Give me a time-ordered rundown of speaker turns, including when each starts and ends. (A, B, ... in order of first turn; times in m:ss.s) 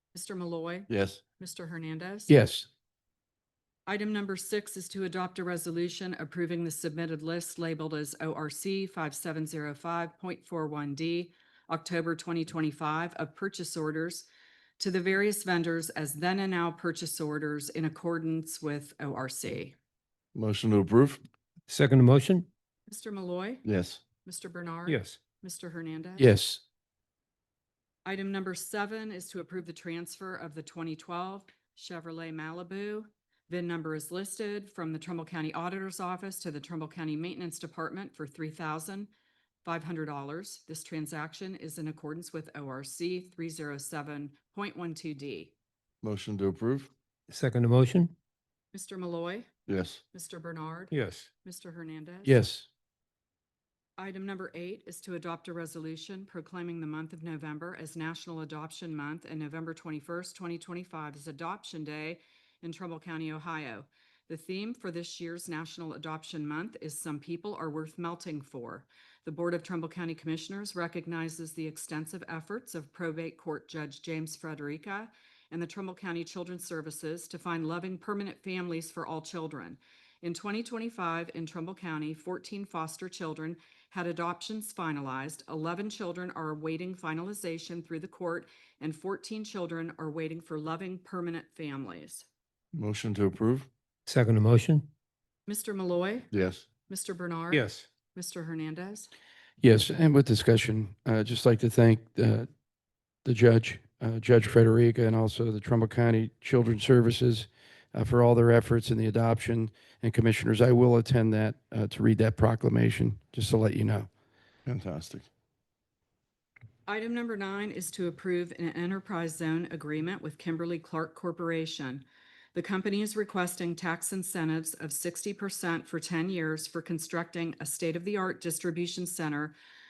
0:00.1-0:02.3 A
0:00.9-0:01.2 B
0:02.3-0:02.7 C
0:03.9-0:14.3 A
0:14.8-0:19.8 A
0:20.4-0:21.2 B
0:21.7-0:22.5 D
0:22.9-0:23.6 A
0:23.6-0:24.0 B
0:24.2-0:26.3 A
0:24.9-0:25.2 D
0:26.2-0:26.6 C
0:28.0-0:39.1 A
0:39.6-0:45.5 A
0:46.0-0:46.9 B
0:47.3-0:48.1 D
0:48.7-0:49.5 A
0:49.7-0:50.0 B
0:50.1-0:52.4 A
0:50.9-0:51.3 D
0:52.2-0:52.7 C
0:54.0-1:32.3 A
1:32.7-1:33.7 B
1:34.1-1:34.9 D
1:35.5-1:36.3 A
1:36.3-1:36.7 B
1:36.9-1:39.1 A
1:37.5-1:37.9 D
1:39.6-1:42.5 C
1:43.2-1:54.1 C
1:54.7-1:55.3 B
1:56.9-2:09.6 A